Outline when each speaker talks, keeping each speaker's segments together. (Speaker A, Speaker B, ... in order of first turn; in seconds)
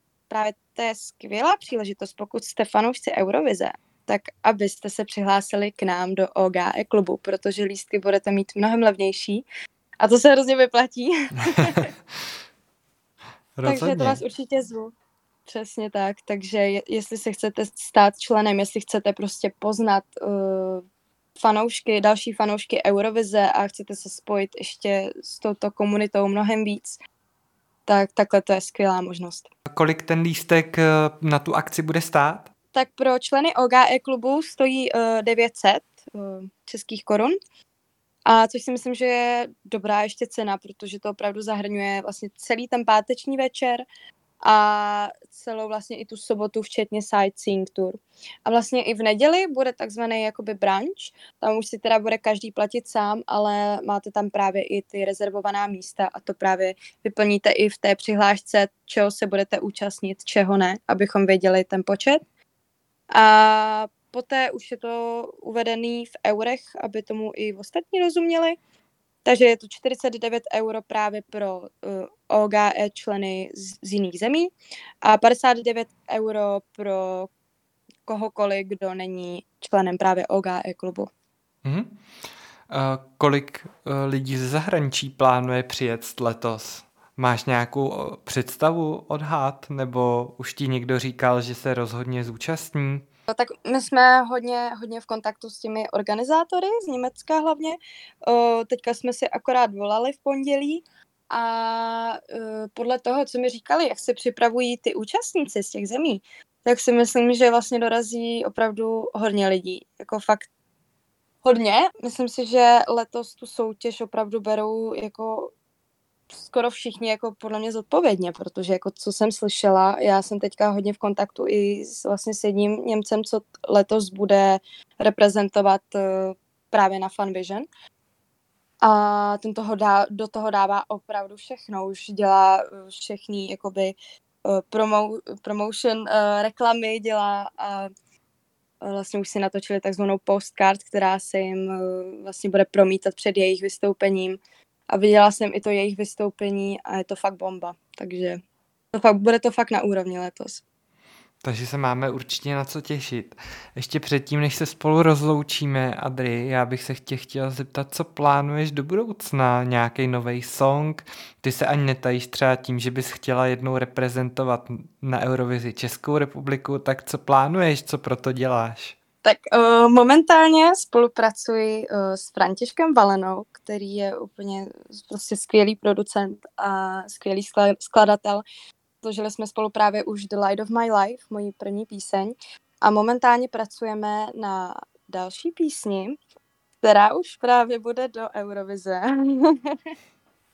Speaker A: 0.3-9.4, 10.0-11.9, 13.6-14.9, 15.5-20.8, 21.4-27.0, 27.9-29.5, 32.7-37.4, 38.3-43.9, 44.4-62.2, 63.1-68.6, 69.2-74.5, 75.0-77.3, 78.1-81.1, 93.3-110.5, 111.4-115.5, 116.3-127.7, 128.8-137.9, 138.8-144.4, 144.9-148.4, 148.9-150.6, 169.2-178.4, 179.0-186.2, 186.8-189.8
Speaker B: 13.6-14.2, 29.7-32.5, 81.6-81.9, 82.7-93.0, 151.4-168.9